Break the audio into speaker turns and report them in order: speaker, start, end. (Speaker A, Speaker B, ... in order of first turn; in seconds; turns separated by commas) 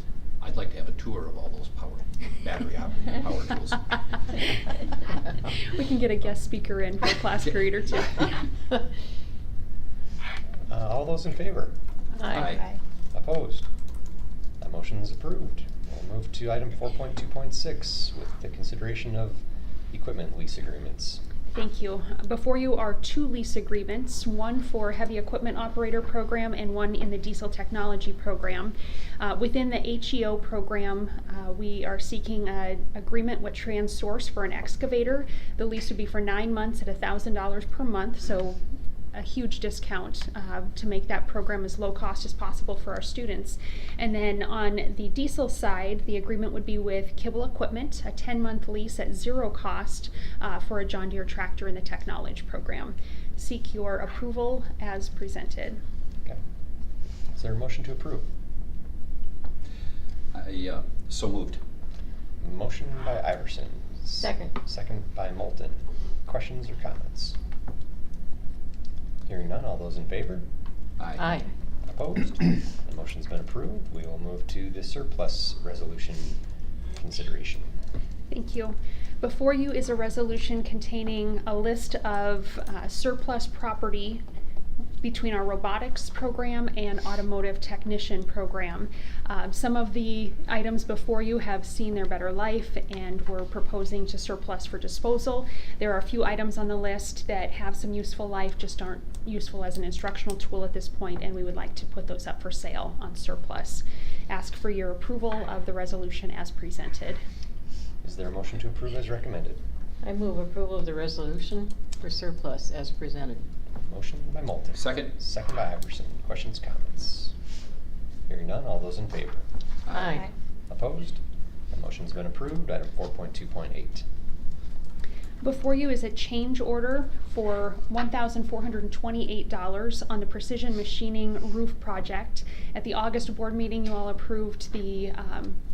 Speaker A: 0.4-4.0, Speaker B: 5.5-8.4, Speaker C: 10.7-11.7, Speaker D: 12.2-12.7, Speaker A: 12.3-12.6, Speaker C: 13.1-13.7, Speaker C: 14.6-21.2, Speaker B: 21.5-38.6, Speaker B: 39.1-55.8, Speaker C: 57.4-58.3, Speaker A: 60.3-61.6, Speaker C: 62.4-67.4, Speaker D: 64.2-64.5, Speaker C: 69.3-70.5, Speaker A: 71.0-71.3, Speaker D: 71.2-71.5, Speaker C: 71.8-76.4, Speaker C: 77.0-77.7, Speaker B: 78.3-84.2, Speaker B: 85.0-107.2, Speaker C: 108.0-109.6, Speaker D: 110.0-113.5, Speaker C: 113.8-117.3, Speaker A: 114.8-115.1, Speaker C: 118.3-119.5, Speaker A: 119.8-120.2, Speaker D: 119.9-120.3, Speaker C: 120.7-124.0, Speaker B: 125.4-135.6